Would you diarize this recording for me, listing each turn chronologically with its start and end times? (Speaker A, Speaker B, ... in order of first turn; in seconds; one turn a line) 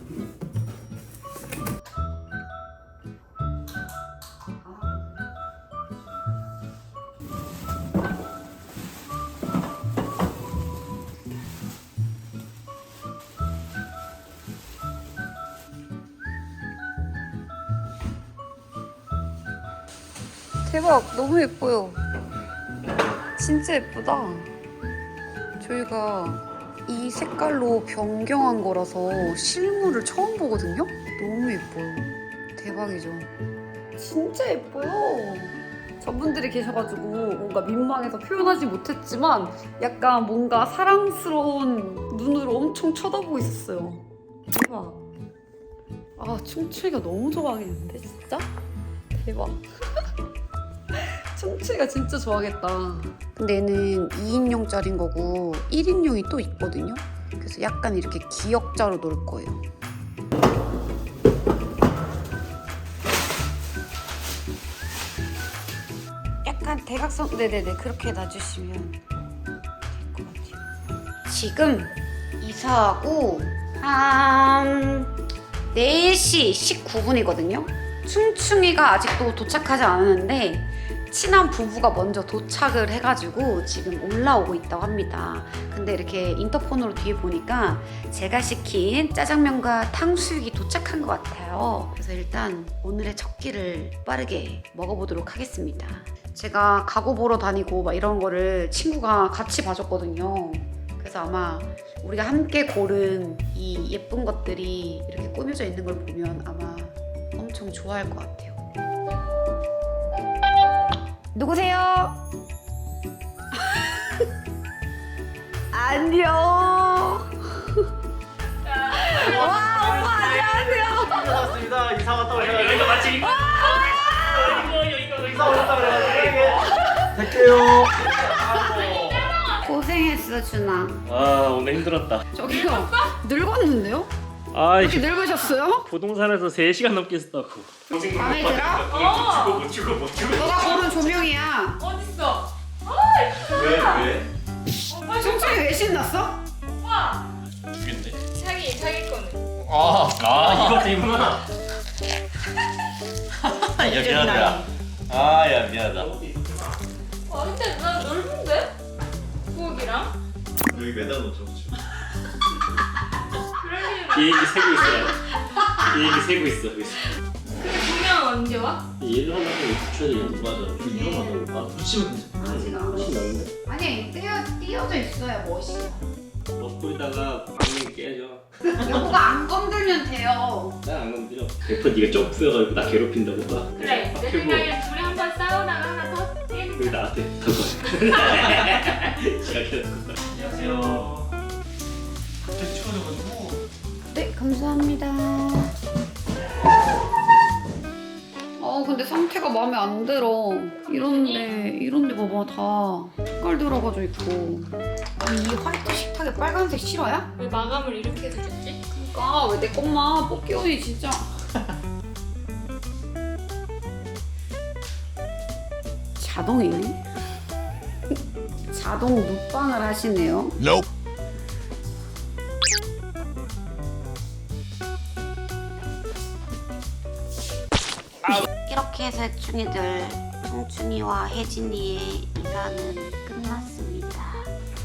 Speaker A: 20.6-22.0
Speaker A: 23.4-24.5
Speaker A: 25.6-33.3
Speaker A: 34.0-45.0
Speaker A: 46.2-48.5
Speaker A: 49.1-49.6
Speaker A: 50.9-59.6
Speaker A: 66.5-69.0
Speaker A: 69.9-70.6
Speaker A: 71.3-75.1
Speaker A: 75.7-108.6
Speaker A: 111.3-112.2
Speaker A: 113.5-114.3
Speaker A: 115.7-117.9
Speaker A: 118.8-121.5
Speaker B: 118.9-119.3
Speaker C: 119.2-123.2
Speaker D: 122.3-126.8
Speaker A: 123.0-124.7
Speaker C: 125.2-129.3
Speaker A: 126.5-127.3
Speaker A: 128.1-128.9
Speaker B: 128.6-129.7
Speaker A: 129.5-131.0
Speaker D: 131.1-132.2
Speaker A: 132.3-134.1
Speaker B: 132.5-133.1
Speaker D: 134.5-141.1
Speaker A: 134.8-135.9
Speaker A: 137.9-138.9
Speaker B: 138.9-139.7
Speaker A: 140.3-141.8
Speaker B: 141.8-144.2
Speaker C: 143.5-144.3
Speaker B: 144.9-145.7
Speaker A: 145.2-146.4
Speaker B: 146.8-147.3
Speaker C: 147.8-148.2
Speaker B: 148.3-149.5
Speaker C: 149.6-150.9
Speaker D: 150.1-151.4
Speaker C: 153.4-156.1
Speaker D: 153.9-154.6
Speaker D: 155.9-156.5
Speaker B: 157.3-158.7
Speaker B: 159.5-160.2
Speaker C: 160.7-161.7
Speaker B: 163.6-165.1
Speaker D: 164.1-167.1
Speaker B: 167.6-168.9
Speaker D: 169.0-170.9
Speaker C: 170.3-172.4
Speaker A: 170.8-171.6
Speaker A: 172.4-176.1
Speaker D: 172.4-173.5
Speaker D: 176.5-178.5
Speaker A: 178.8-180.8
Speaker D: 180.8-184.7
Speaker B: 183.8-187.0
Speaker D: 186.8-191.1
Speaker C: 190.4-191.3
Speaker C: 192.6-193.6
Speaker A: 194.1-195.7
Speaker A: 198.6-204.7
Speaker B: 200.9-201.5
Speaker A: 205.2-207.3
Speaker B: 207.4-208.8
Speaker A: 208.9-211.3
Speaker A: 216.2-217.0
Speaker A: 218.7-220.8
Speaker A: 228.3-234.5